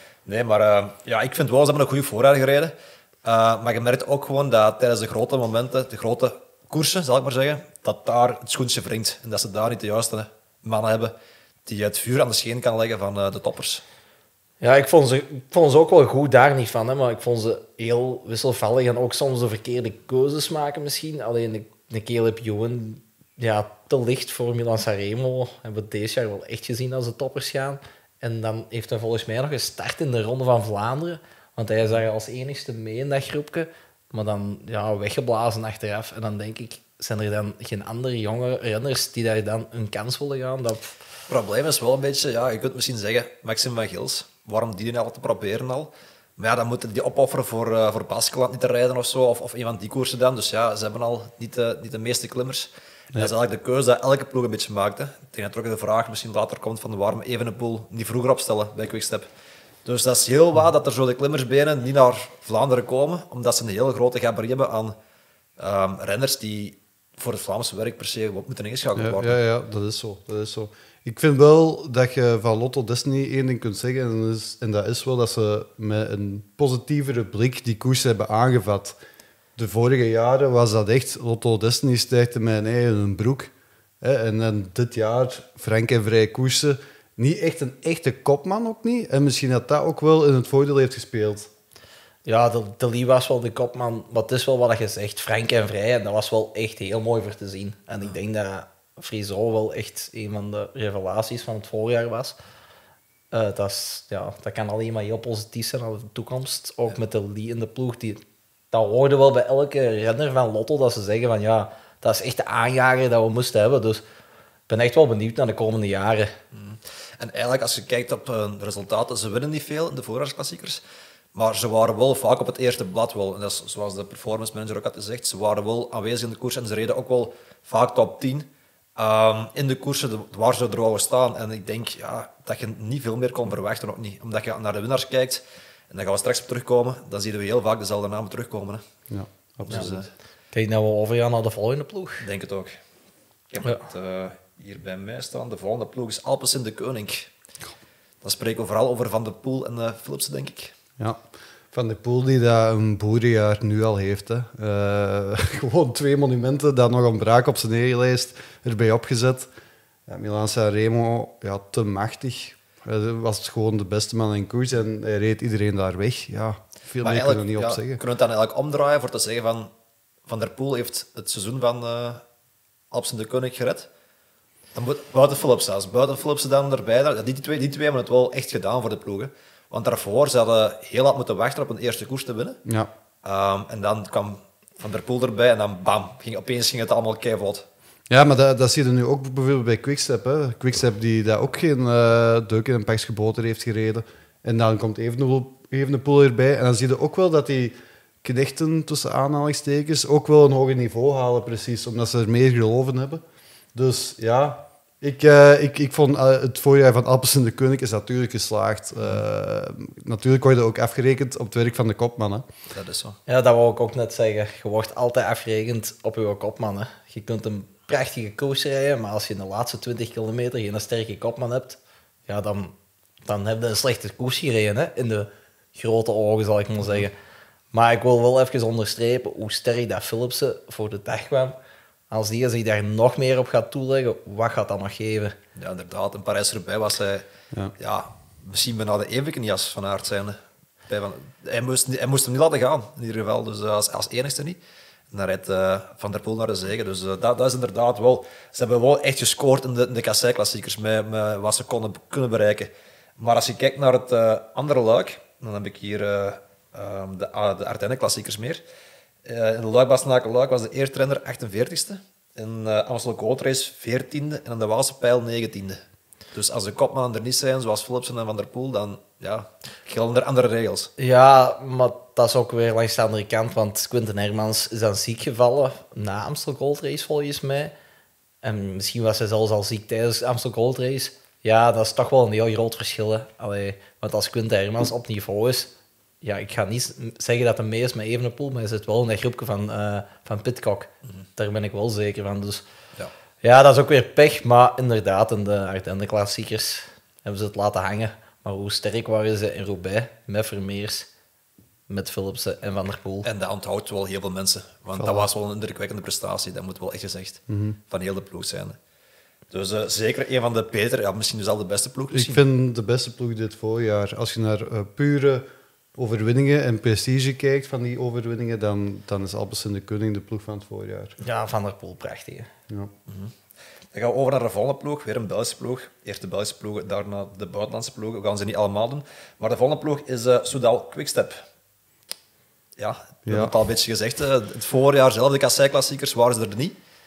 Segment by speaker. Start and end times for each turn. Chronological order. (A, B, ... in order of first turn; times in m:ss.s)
0:00.3-0:02.7 A
0:03.2-0:11.1 A
0:11.7-0:13.8 A
0:14.6-0:40.9 B
0:41.3-0:59.3 A
0:59.8-1:05.0 A
1:05.6-1:09.4 A
1:09.0-1:19.0 C
1:19.6-1:31.5 C
1:32.3-1:42.4 B
1:43.3-1:48.2 B
1:48.7-1:54.0 B
1:54.7-1:56.3 B
1:56.5-2:00.8 A
2:01.4-2:18.8 A
2:19.1-2:20.0 C
2:19.6-2:20.1 A
2:20.5-2:22.3 B
2:22.2-2:22.8 A
2:23.5-2:27.3 A
2:28.2-2:30.7 A
2:31.7-2:39.5 C
2:40.1-2:48.0 C
2:47.0-2:49.7 A
2:50.3-2:52.2 A
2:52.9-2:53.9 A
2:54.8-3:02.6 A
3:03.2-3:07.7 A
3:08.1-3:23.2 C
3:23.8-3:32.4 C
3:32.7-3:33.2 A
3:33.3-3:47.1 B
3:47.7-3:51.6 B
3:52.1-3:55.4 B
3:55.6-4:04.6 A
4:05.1-4:18.6 A
4:19.2-4:25.8 A
4:26.3-4:30.9 A
4:31.0-4:37.7 B
4:38.4-4:52.6 B
4:53.4-5:01.1 B
5:01.9-5:03.3 B
5:03.2-5:08.8 A
5:05.0-5:05.3 C
5:07.5-5:07.8 C
5:09.5-5:12.4 A
5:12.1-5:21.1 C
5:21.2-5:22.5 B
5:23.1-5:23.3 A
5:23.9-5:31.4 A
5:32.8-5:36.8 A
5:33.3-5:33.5 C